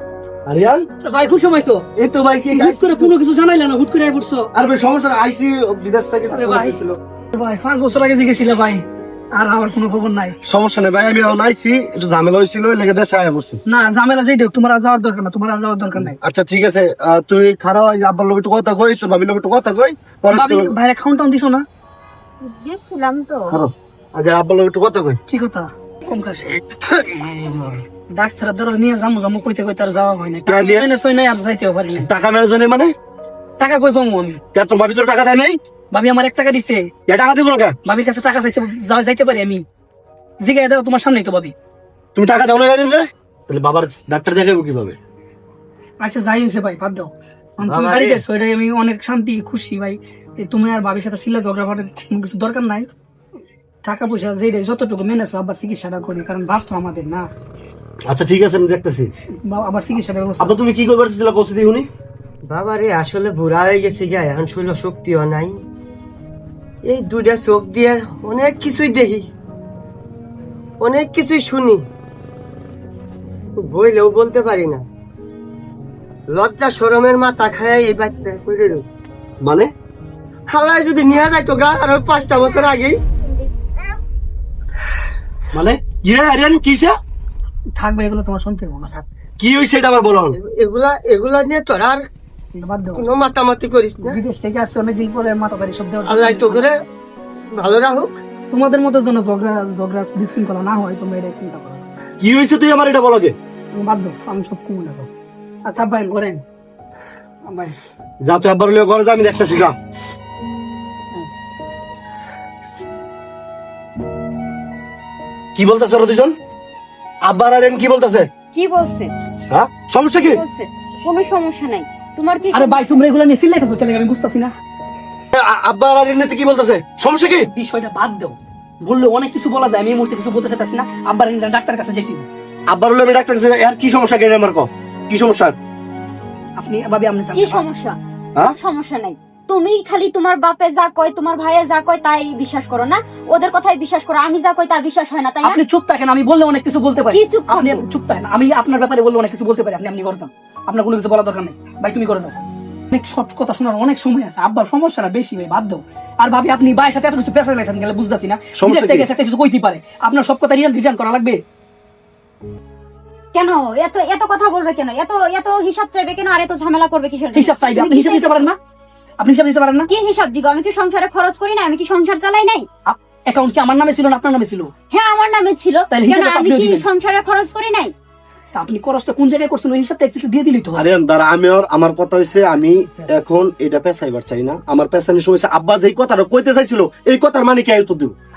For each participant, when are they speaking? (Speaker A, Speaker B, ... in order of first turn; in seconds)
Speaker A: 0.5-0.9, 2.0-3.1, 4.5-7.0, 10.4-13.6, 16.2-20.7, 23.5-25.2, 26.9-27.7, 30.5-30.8, 32.0-32.9, 34.5-35.6, 37.1-37.8, 42.1-45.0, 58.1-59.1, 60.4-61.9, 79.4-79.7, 85.5-87.0, 89.4-90.3, 102.2-103.3, 108.2-109.8, 115.5-116.3, 117.2-118.3, 119.5-120.4, 125.3-127.5, 132.7-135.6, 158.6-159.1, 180.8-188.1
Speaker B: 1.0-1.8, 2.5-4.5, 6.3-6.8, 7.3-10.3, 13.7-16.2, 20.3-21.6, 25.3-26.5, 28.1-32.1, 33.6-34.4, 35.9-36.9, 37.9-39.6, 40.4-41.5, 46.0-52.9, 53.8-57.3, 59.5-60.5, 87.8-89.0, 92.5-93.0, 94.0-96.7, 98.5-101.8, 103.7-105.1, 105.7-106.4, 107.5-107.8, 122.5-124.5, 127.4-132.3, 136.6-137.6, 145.4-161.4, 167.3-168.6, 169.2-169.9, 172.8-174.7, 175.9-176.8, 178.5-180.8
Speaker C: 22.4-23.6, 118.5-119.1, 120.1-122.9, 137.3-137.9, 138.5-145.6, 147.1-147.8, 163.3-168.5, 169.9-172.7, 174.9-177.9
Speaker D: 47.6-48.2, 62.5-65.6, 66.8-69.3, 70.8-71.8, 73.6-74.8, 76.3-78.8, 80.5-83.0, 90.3-92.1, 92.9-94.2, 96.0-96.8, 97.5-98.2